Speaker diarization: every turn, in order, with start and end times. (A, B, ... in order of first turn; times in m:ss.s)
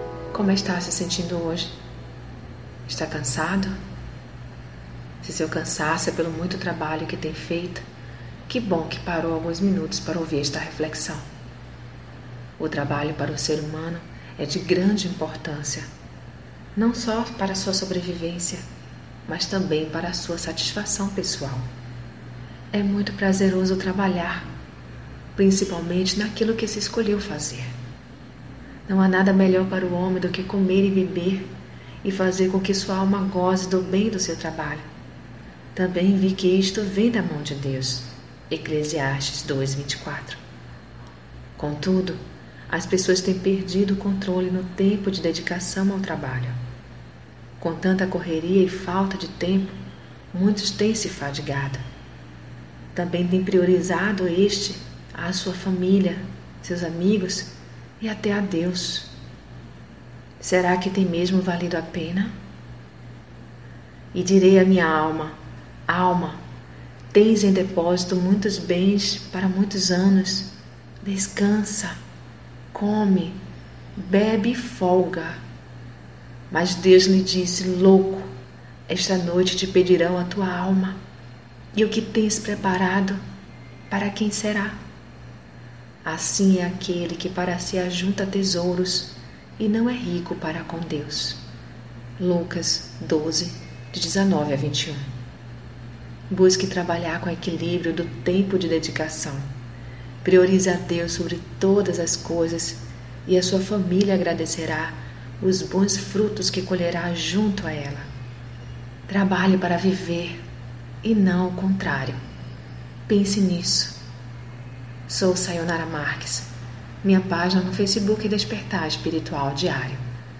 0:00.3-0:01.7 A
0:02.8-0:03.7 A
0:05.2-0:07.8 A
0:08.5-0:11.2 A
0:12.6-0:15.8 A
0:16.7-0:18.6 A
0:19.2-0:21.7 A
0:22.7-0:24.5 A
0:25.3-0:27.7 A
0:28.9-0:31.5 A
0:32.0-0:34.8 A
0:35.7-0:40.4 A
0:41.6-0:46.6 A
0:47.6-0:49.8 A
0:50.3-0:51.8 A
0:52.9-0:59.1 A
1:00.4-1:02.3 A
1:04.1-1:06.4 A
1:07.1-1:12.0 A
1:12.7-1:13.4 A
1:14.0-1:15.4 A
1:16.5-1:18.3 A
1:18.9-1:21.0 A
1:21.7-1:23.2 A
1:23.9-1:24.8 A
1:26.0-1:31.4 A
1:32.2-1:35.0 A
1:36.3-1:39.5 A
1:40.2-1:48.1 A
1:49.1-1:50.4 A
1:51.0-1:52.2 A
1:53.1-1:54.0 A
1:55.1-1:56.5 A
1:57.0-2:00.0 A